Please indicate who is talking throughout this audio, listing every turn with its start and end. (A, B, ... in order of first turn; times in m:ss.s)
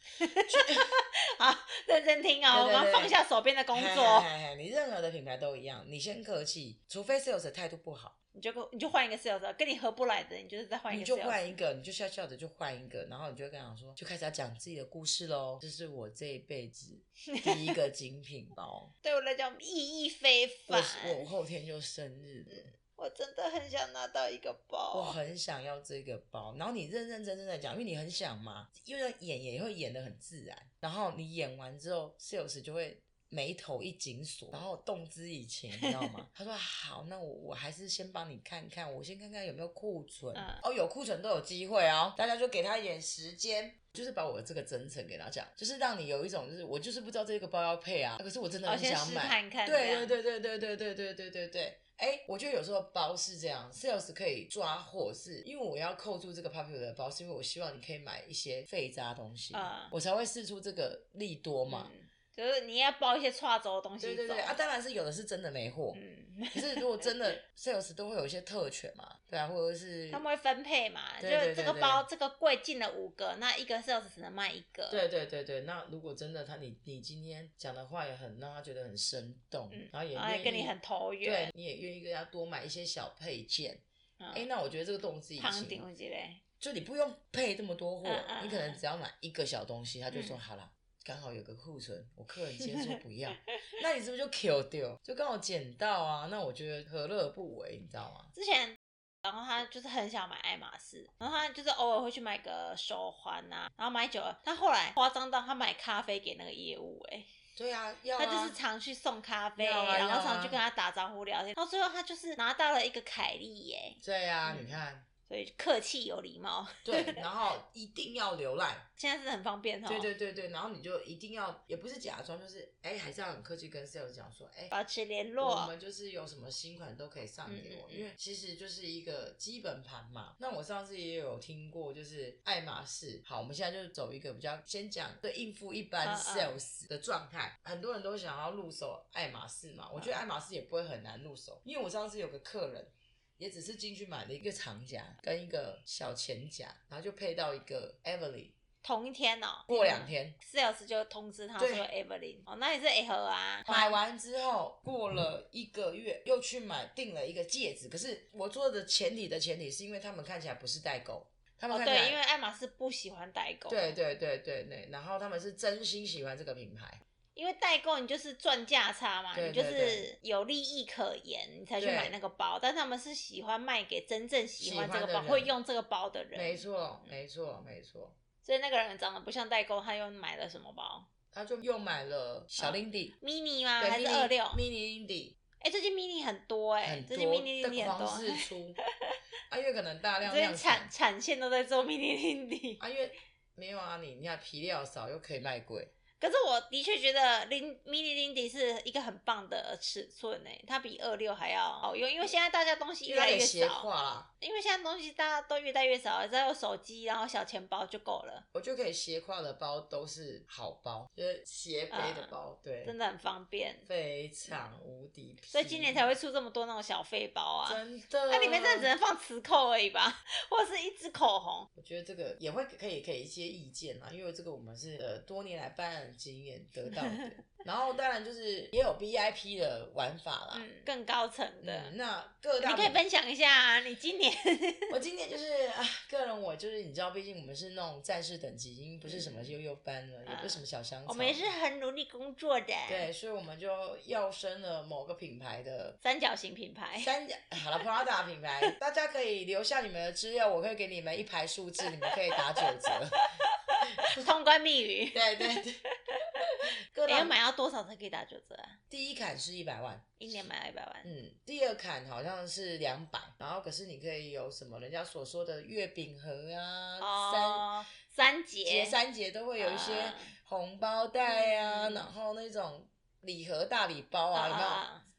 0:00.2-0:04.3 A
0:00.5-0:00.9 B
0:02.5-0:03.1 B
0:03.7-0:08.1 B
0:08.3-0:11.5 A
0:10.9-0:18.9 B
0:17.3-0:17.7 A
0:19.0-0:21.2 A
0:20.7-0:22.7 B
0:22.5-0:25.2 A
0:24.9-1:01.9 B
0:40.3-0:40.6 A
0:48.6-0:50.1 A
0:59.5-0:59.9 A
1:01.7-1:04.6 A
1:04.0-1:06.0 B
1:05.9-1:07.1 A
1:06.5-1:10.2 B
1:10.1-1:15.0 A
1:11.2-1:12.0 B
1:14.9-1:25.8 B
1:19.7-1:21.5 A
1:24.2-1:24.5 A
1:25.4-1:26.4 A
1:26.6-1:38.3 B
1:28.0-1:28.8 A
1:30.1-1:30.4 A
1:32.6-1:33.0 A
1:38.3-1:47.3 A
1:47.6-1:48.6 B
1:48.2-1:57.2 A
1:49.6-1:50.6 B
1:54.0-1:55.0 B
1:56.8-1:58.8 B
1:59.0-2:00.1 A
1:59.8-2:04.7 B
2:04.7-2:05.7 A
2:05.4-2:28.6 B
2:07.4-2:08.1 A
2:16.0-2:16.5 A
2:28.8-2:34.0 A
2:29.7-2:30.4 B
2:31.6-2:31.9 B
2:33.6-2:42.2 B
2:41.7-2:44.0 A
2:43.7-2:47.0 B
2:47.4-2:57.1 A
2:49.3-2:50.1 B
2:51.8-2:52.1 B
2:54.6-2:55.5 B
2:56.3-2:58.1 B
2:58.4-3:01.1 A
3:01.3-3:03.1 B
3:02.6-3:04.6 A
3:03.8-3:05.4 B
3:05.6-3:08.5 A
3:06.8-3:08.8 B
3:09.5-3:10.9 B
3:10.2-3:12.8 A
3:12.8-3:15.9 B
3:16.2-3:23.9 A
3:23.0-3:24.3 B
3:24.4-3:28.4 A
3:28.5-3:32.9 B
3:31.9-3:33.8 A
3:33.8-3:36.1 B
3:35.5-3:41.7 A
3:37.6-3:38.9 B
3:41.8-3:50.7 B
3:50.5-3:51.9 A
3:51.6-3:53.0 B
3:52.6-3:54.9 A
3:54.9-4:01.4 B
3:59.0-3:59.5 A
4:00.2-4:03.1 A
4:02.9-4:06.0 B
4:06.0-4:07.1 A
4:07.0-4:13.3 B
4:12.6-4:12.9 A
4:13.9-4:14.2 B
4:14.1-4:16.4 A
4:15.1-4:15.8 B
4:16.9-4:17.3 B
4:17.0-4:18.8 A
4:18.9-4:20.2 B
4:20.2-4:21.1 A
4:21.0-4:27.7 B
4:27.0-4:28.9 A
4:28.6-4:34.8 B
4:29.6-4:30.3 A
4:31.2-4:32.1 A
4:34.3-4:35.0 A